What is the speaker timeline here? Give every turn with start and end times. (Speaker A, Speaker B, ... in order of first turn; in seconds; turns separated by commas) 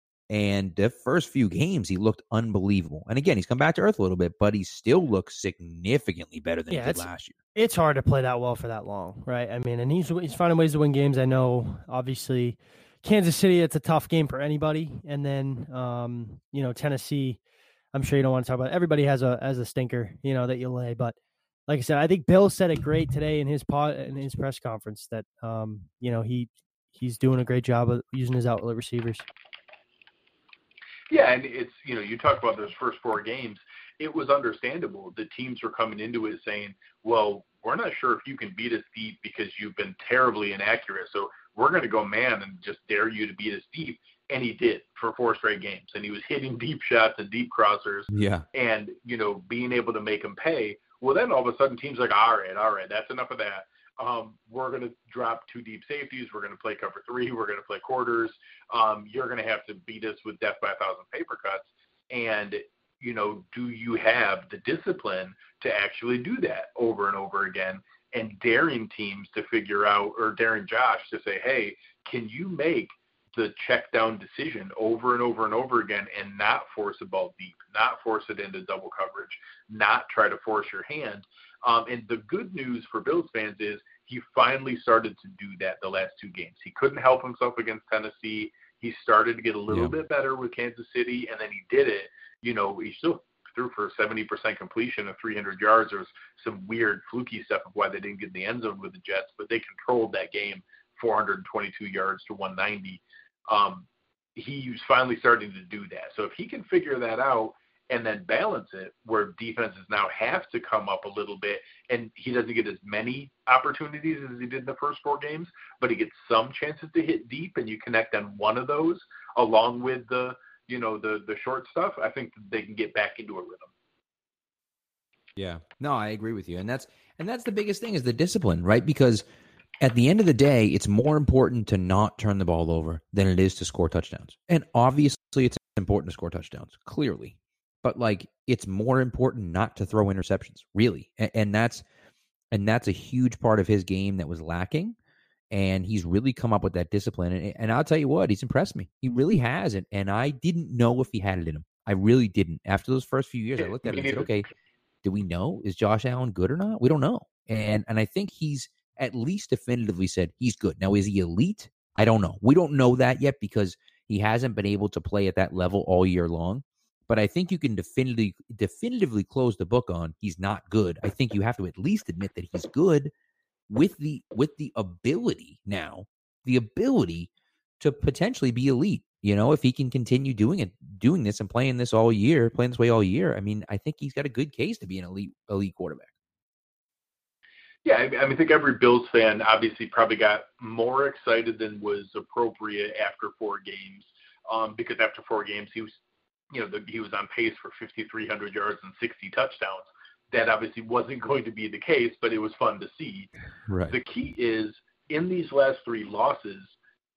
Speaker A: 0.3-7.4, Speaker B: 6.7-17.4, Speaker B: 17.9-21.2, Speaker B: 21.7-29.2, Speaker C: 31.1-123.7, Speaker A: 48.1-48.5, Speaker A: 125.4-129.3, Speaker A: 129.8-141.8, Speaker A: 142.5-145.0, Speaker A: 145.5-154.5, Speaker C: 153.6-154.5, Speaker A: 155.0-173.1, Speaker A: 173.7-177.3, Speaker A: 177.8-186.1, Speaker C: 187.8-195.9, Speaker C: 196.5-203.3, Speaker A: 203.7-204.0, Speaker C: 203.9-206.8